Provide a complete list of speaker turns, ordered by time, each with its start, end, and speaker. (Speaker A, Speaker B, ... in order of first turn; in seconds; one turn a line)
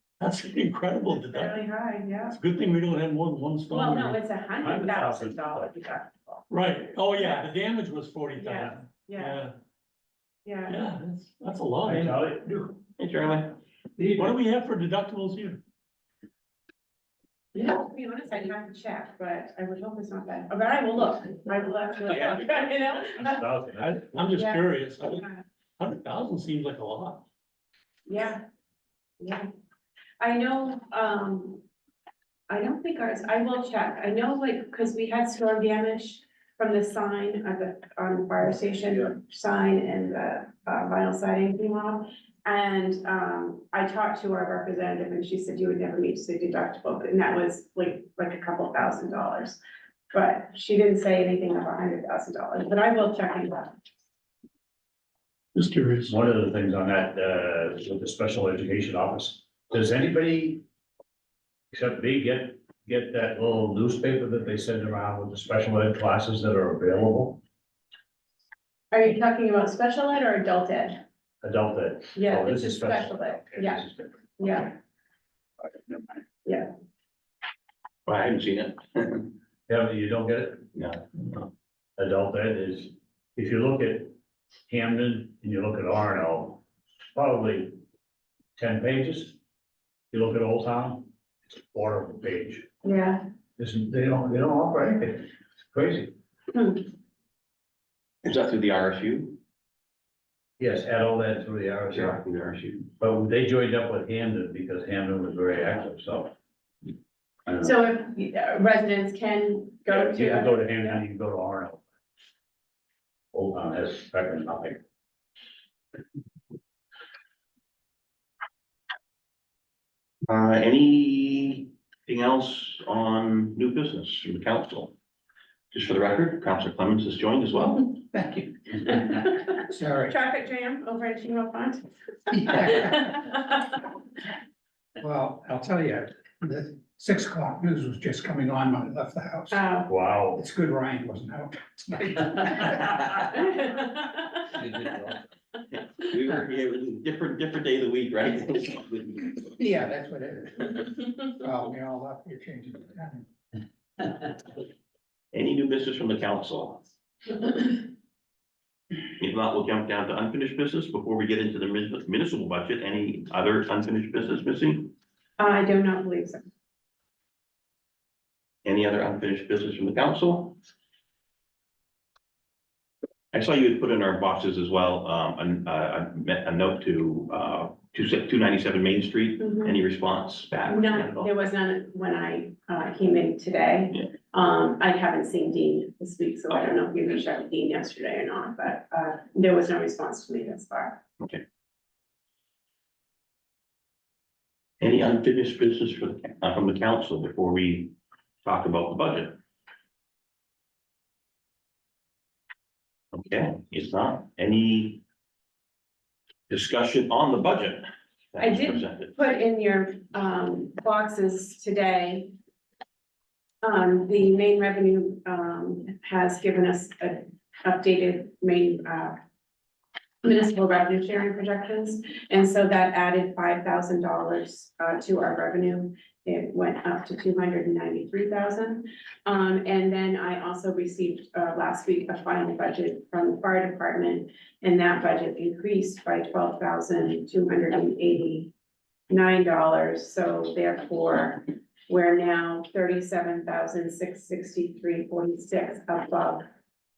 Speaker A: 0.2-1.6
Speaker B: 1.1-2.4
Speaker A: 2.3-4.2
Speaker B: 3.7-6.5
Speaker C: 4.6-5.7
Speaker A: 6.5-9.5
Speaker B: 7.2-7.5
Speaker B: 8.4-9.4
Speaker B: 10.4-10.8
Speaker A: 10.7-12.2
Speaker C: 11.8-12.8
Speaker D: 13.0-13.6
Speaker C: 14.0-14.3
Speaker A: 14.2-15.6
Speaker B: 17.5-23.5
Speaker D: 22.1-23.1
Speaker C: 23.2-24.0
Speaker A: 23.8-25.2
Speaker B: 24.3-25.4
Speaker A: 25.8-27.3
Speaker B: 28.1-28.4
Speaker B: 29.2-29.5
Speaker B: 30.2-31.6
Speaker B: 32.5-49.6
Speaker B: 50.1-53.7
Speaker A: 55.5-56.2
Speaker C: 56.1-60.6
Speaker C: 61.7-67.4
Speaker B: 68.9-71.0
Speaker C: 71.4-74.3
Speaker B: 72.1-73.9
Speaker B: 74.4-74.8
Speaker C: 75.6-76.2
Speaker D: 78.1-79.3
Speaker C: 79.7-80.7
Speaker D: 80.7-81.0
Speaker C: 82.0-84.2
Speaker C: 84.7-86.6
Speaker C: 87.2-87.8
Speaker C: 88.6-89.4
Speaker C: 90.1-92.7
Speaker B: 92.8-93.2
Speaker C: 93.6-96.1
Speaker B: 96.5-96.8
Speaker D: 98.2-99.4
Speaker C: 100.6-102.2
Speaker D: 101.9-102.9
Speaker C: 102.9-106.3
Speaker B: 107.6-111.0
Speaker C: 109.9-111.8
Speaker C: 113.3-114.8
Speaker D: 120.3-124.9
Speaker D: 125.7-128.3
Speaker E: 128.3-129.0
Speaker B: 128.9-133.5
Speaker E: 129.7-130.1
Speaker E: 132.3-133.2
Speaker E: 135.0-139.6
Speaker B: 139.5-140.0
Speaker C: 139.9-140.4
Speaker E: 140.3-143.2
Speaker B: 143.6-144.1
Speaker C: 144.6-145.1
Speaker D: 145.7-149.4
Speaker E: 149.5-153.2
Speaker D: 155.3-156.8
Speaker D: 159.2-164.9
Speaker B: 165.4-166.4
Speaker D: 168.7-170.6
Speaker D: 173.3-181.3
Speaker B: 179.4-179.8
Speaker B: 180.7-191.0
Speaker D: 194.8-199.4
Speaker D: 203.1-205.0
Speaker D: 206.5-209.2
Speaker B: 208.4-212.3
Speaker B: 213.6-219.2
Speaker B: 220.2-238.5
Speaker B: 239.1-246.4